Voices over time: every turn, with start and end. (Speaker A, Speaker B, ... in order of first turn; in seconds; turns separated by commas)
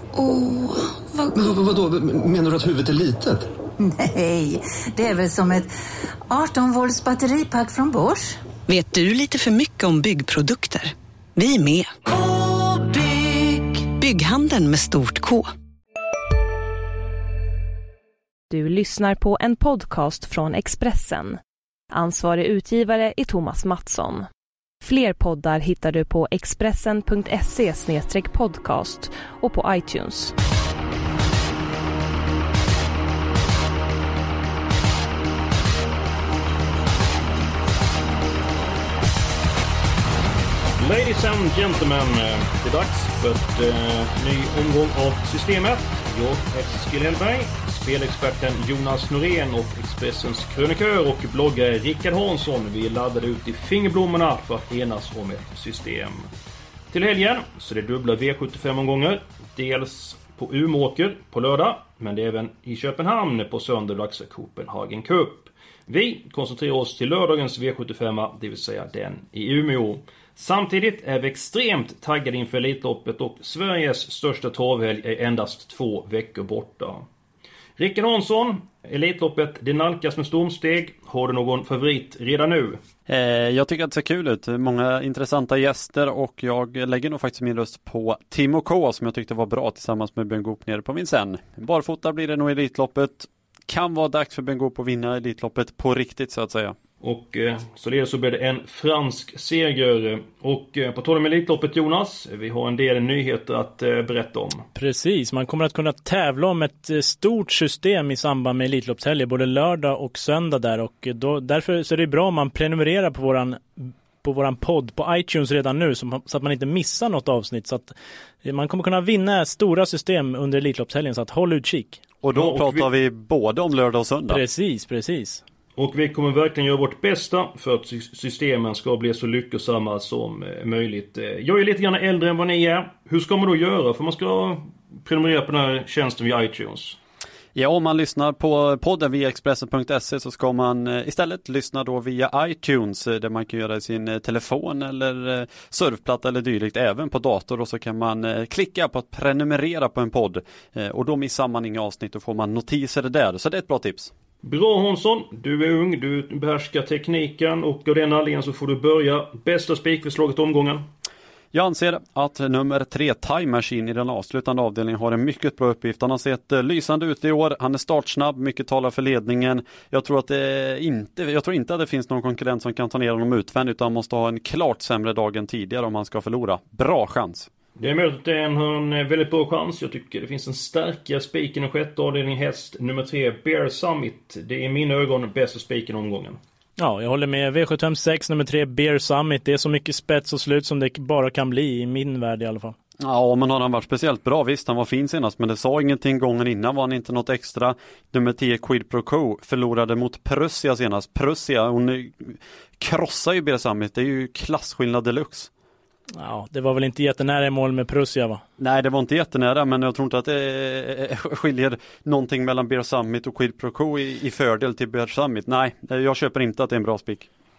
Speaker A: 1.3-3.5, Speaker B: 4.1-5.7, Speaker B: 6.3-8.3, Speaker C: 8.7-11.9, Speaker C: 13.7-15.5, Speaker D: 18.5-21.4, Speaker D: 21.9-24.2, Speaker D: 24.8-30.3, Speaker E: 40.8-56.3, Speaker E: 56.9-77.0, Speaker E: 77.8-82.8, Speaker F: 83.1-96.8, Speaker E: 97.0-104.7, Speaker G: 104.8-122.0, Speaker F: 122.2-124.4, Speaker E: 122.3-122.9, Speaker G: 124.3-125.4, Speaker E: 125.8-137.0, Speaker F: 137.6-154.1, Speaker E: 154.4-160.8, Speaker F: 161.5-177.5, Speaker E: 177.8-186.4, Speaker G: 186.8-192.8, Speaker F: 193.0-205.5, Speaker G: 206.1-208.4, Speaker F: 208.6-217.3